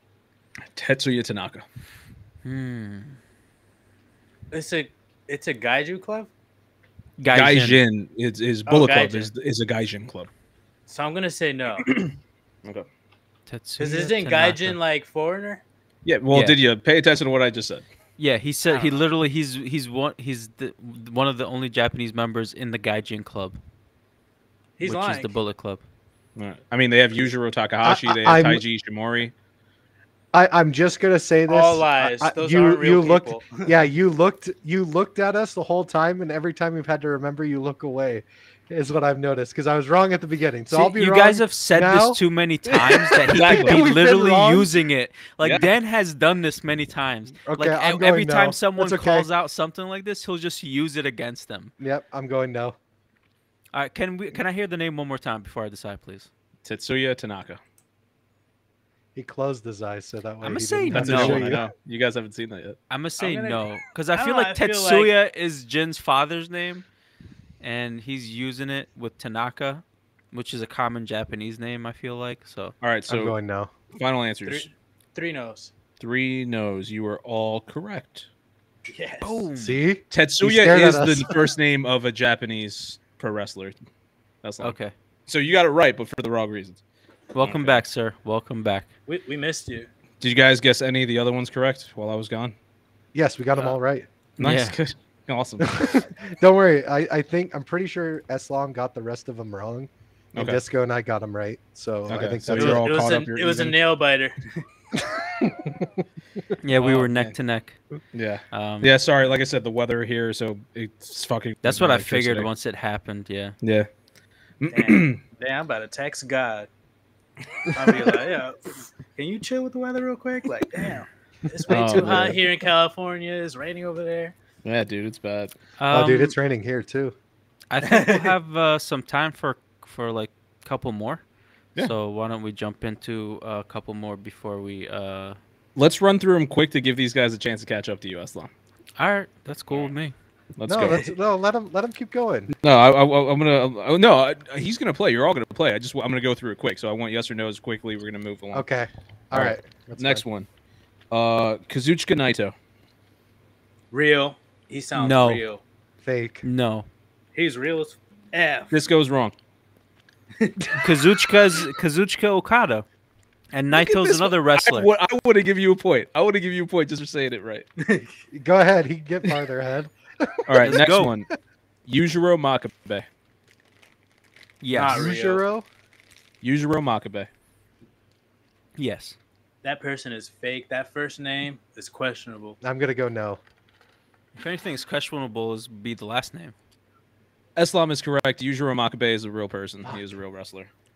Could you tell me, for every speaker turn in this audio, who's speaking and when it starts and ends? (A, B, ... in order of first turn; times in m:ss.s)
0:00.7-0:01.6 A
0:02.4-0:03.2 B
0:04.5-0:06.3 C
0:07.2-0:07.8 B
0:07.3-0:10.3 A
0:08.6-0:09.3 C
0:10.9-0:11.9 C
0:11.8-0:12.1 A
0:13.5-0:14.8 B
0:13.8-0:15.6 C
0:16.0-0:17.8 A
0:16.3-0:16.6 B
0:18.2-0:23.6 B
0:18.7-0:19.0 C
0:24.8-0:25.3 C
0:24.8-0:25.8 B
0:26.4-0:29.3 A
0:27.8-0:28.6 D
0:30.3-0:42.2 D
0:31.5-0:33.7 C
0:40.7-0:51.7 B
0:43.3-0:43.8 A
0:43.3-0:44.7 D
0:45.4-0:45.6 A
0:47.4-0:49.3 D
0:51.8-0:52.8 D
0:53.7-0:56.3 B
0:56.6-0:57.6 A
0:59.1-1:01.7 D
1:00.4-1:01.6 B
1:00.9-1:02.8 A
1:02.9-1:06.8 B
1:03.2-1:05.1 C
1:07.6-1:12.7 B
1:12.8-1:13.4 A
1:13.1-1:13.7 D
1:13.9-1:14.7 A
1:14.4-1:15.7 C
1:16.0-1:18.3 A
1:18.9-1:19.4 C
1:19.2-1:19.8 B
1:19.6-1:21.4 D
1:20.1-1:23.8 A
1:24.4-1:26.8 A
1:24.6-1:24.9 B
1:27.3-1:28.9 B
1:27.4-1:27.8 A
1:29.1-1:29.9 C
1:30.2-1:32.5 A
1:33.1-1:34.1 D
1:34.4-1:35.7 A
1:34.4-1:34.8 B
1:35.6-1:42.9 D
1:40.3-1:40.6 A
1:42.1-1:43.8 A
1:42.5-1:44.6 C
1:45.0-1:46.0 D
1:46.6-1:47.8 B
1:46.7-1:47.3 A
1:48.1-1:52.5 A
1:48.5-1:48.9 B
1:51.6-1:53.6 B
1:53.6-1:53.9 A
1:54.6-1:55.2 A
1:54.7-1:56.7 C
1:57.7-2:04.3 C
2:01.6-2:02.4 D
2:01.7-2:02.4 A
2:04.6-2:05.5 A
2:05.8-2:06.4 B
2:05.9-2:07.1 D
2:07.7-2:11.2 B
2:07.8-2:08.3 C
2:11.8-2:15.4 B
2:15.8-2:18.5 A
2:19.0-2:20.1 B
2:20.6-2:21.1 A
2:20.6-2:22.5 D
2:22.5-2:28.6 A
2:28.5-2:30.2 D
2:29.3-2:30.5 A
2:31.1-2:32.5 A
2:33.9-2:35.6 C
2:34.9-2:35.4 B
2:36.0-2:36.4 D
2:36.4-2:36.9 B
2:37.3-2:38.7 C
2:38.7-2:39.3 A
2:40.7-2:42.8 B
2:43.5-2:44.9 B
2:43.7-2:47.6 A
2:47.8-2:48.1 C
2:48.3-2:51.0 D
2:50.5-2:51.3 A
2:50.6-2:51.1 B
2:51.8-2:53.0 A
2:54.6-2:55.1 B
2:54.7-2:55.4 C
2:54.8-2:55.6 D
2:56.4-2:57.3 A
2:58.8-2:59.2 B
2:59.6-3:02.6 C
3:02.6-3:03.4 D
3:04.4-3:06.5 B
3:07.6-3:10.7 A